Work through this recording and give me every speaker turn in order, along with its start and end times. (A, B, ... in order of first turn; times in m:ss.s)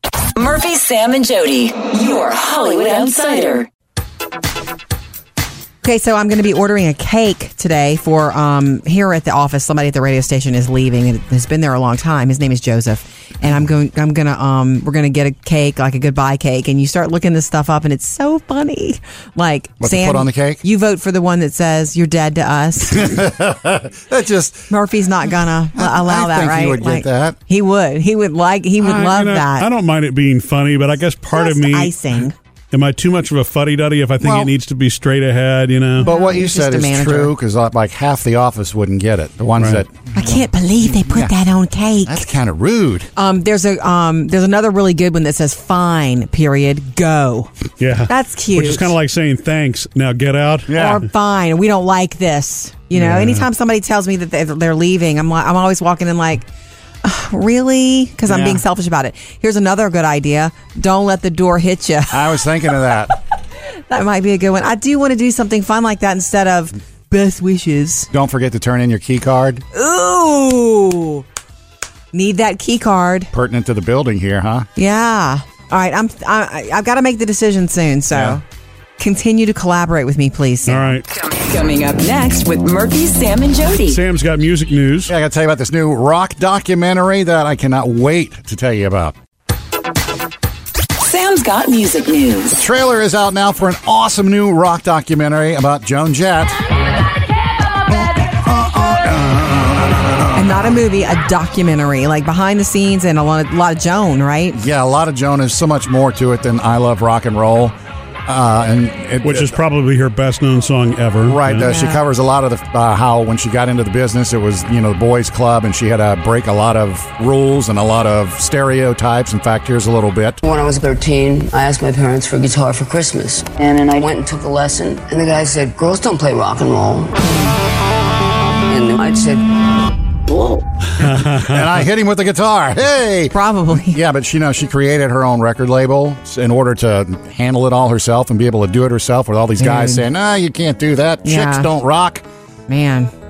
0:00.4-0:03.7 A
0:05.8-0:23.2 B
0:19.8-0:20.6 C
0:22.9-0:24.7 C
0:24.7-0:29.7 B
0:25.8-0:27.4 C
0:28.8-0:32.0 D
0:31.3-0:32.4 B
0:32.7-0:36.1 D
0:34.2-0:34.5 C
0:36.0-0:37.3 B
0:36.0-0:41.3 C
0:39.6-0:39.8 D
0:40.1-0:42.3 B
0:42.0-0:43.1 C
0:43.2-0:47.5 B
0:47.8-0:50.8 D
0:48.1-0:48.9 B
0:50.7-0:51.0 C
0:50.7-0:56.5 B
0:53.0-0:53.4 D
0:57.0-1:02.4 B
0:58.3-0:58.6 C
1:02.1-1:03.1 C
1:03.9-1:08.1 B
1:08.1-1:09.6 C
1:09.7-1:11.2 B
1:12.1-1:13.3 B
1:13.3-1:14.7 C
1:14.8-1:18.4 B
1:18.1-1:18.4 C
1:19.0-1:21.0 B
1:20.6-1:21.0 D
1:21.1-1:24.0 A
1:23.9-1:25.1 D
1:25.1-1:29.2 C
1:31.0-1:32.6 A
1:32.6-1:36.6 C
1:37.9-1:40.6 C
1:40.4-1:44.6 B
1:44.5-1:47.8 C
1:48.3-1:49.6 C
1:49.2-1:51.7 D
1:51.3-2:00.4 C
1:51.7-1:52.0 B
2:00.4-2:07.4 E
2:08.7-2:10.6 E
2:11.0-2:11.7 D
2:11.0-2:22.2 C
2:13.3-2:14.0 B
2:19.6-2:20.0 B
2:21.2-2:21.7 B
2:22.7-2:23.1 B